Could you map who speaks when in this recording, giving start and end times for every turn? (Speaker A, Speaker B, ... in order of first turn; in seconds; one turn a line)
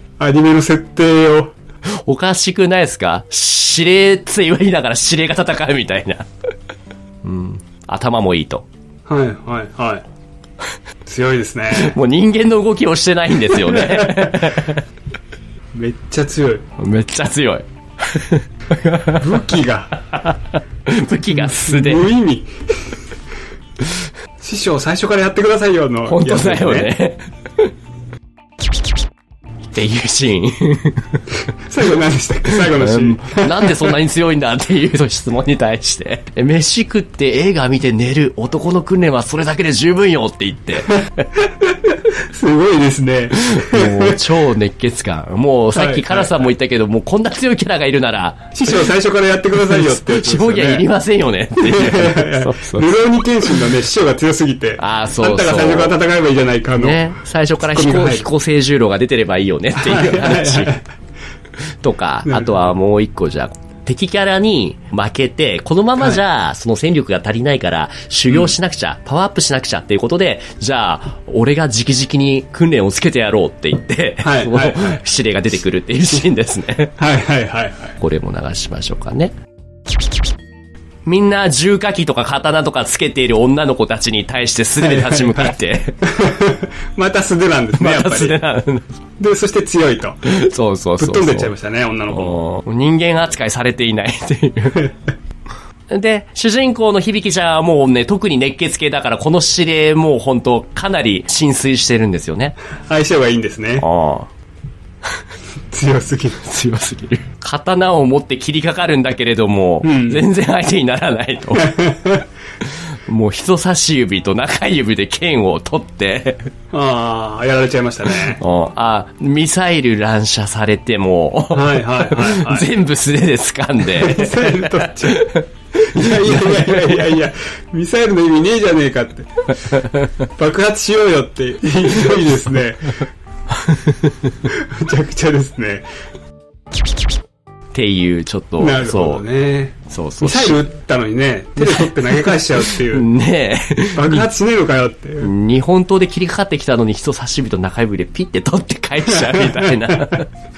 Speaker A: 0.2-1.5
Speaker B: 2.0-6.3
Speaker B: 7.2-8.7
Speaker A: 9.1-10.1
Speaker A: 11.0-11.9
Speaker B: 11.7-14.8
Speaker A: 13.5-14.4
Speaker A: 15.7-16.6
Speaker B: 16.8-19.4
Speaker A: 19.2-19.9
Speaker B: 20.0-22.1
Speaker A: 21.3-22.5
Speaker A: 24.4-26.9
Speaker B: 26.1-27.7
Speaker B: 29.7-31.2
Speaker A: 31.7-33.9
Speaker B: 32.5-41.0
Speaker A: 42.1-44.2
Speaker B: 43.3-48.8
Speaker A: 45.7-46.4
Speaker A: 48.5-50.9
Speaker B: 49.7-53.5
Speaker A: 51.6-57.0
Speaker B: 54.8-56.0
Speaker B: 56.8-60.8
Speaker A: 57.6-58.2
Speaker A: 59.8-60.8
Speaker B: 61.8-76.9
Speaker A: 62.2-62.6
Speaker A: 68.3-68.5
Speaker A: 74.2-75.0
Speaker A: 77.0-77.9
Speaker B: 78.0-79.3
Speaker B: 81.0-86.0
Speaker A: 84.8-88.4
Speaker B: 87.8-88.9
Speaker A: 89.2-90.2
Speaker B: 90.2-91.5
Speaker A: 91.0-92.4
Speaker B: 92.1-94.9
Speaker B: 95.9-102.5
Speaker A: 102.9-103.8
Speaker B: 103.8-104.3
Speaker A: 105.7-106.5
Speaker B: 106.4-111.8
Speaker A: 109.8-110.2
Speaker A: 111.5-112.2
Speaker B: 112.6-116.5
Speaker A: 116.7-118.4
Speaker B: 118.4-127.2
Speaker A: 121.5-122.7
Speaker A: 123.9-129.4
Speaker B: 129.7-130.2
Speaker A: 130.3-132.9
Speaker B: 133.5-134.5
Speaker A: 134.5-135.9
Speaker B: 137.7-139.2
Speaker A: 138.6-143.1
Speaker B: 139.9-140.6
Speaker B: 141.6-144.3
Speaker A: 143.9-145.3
Speaker B: 145.2-150.3
Speaker A: 149.1-150.2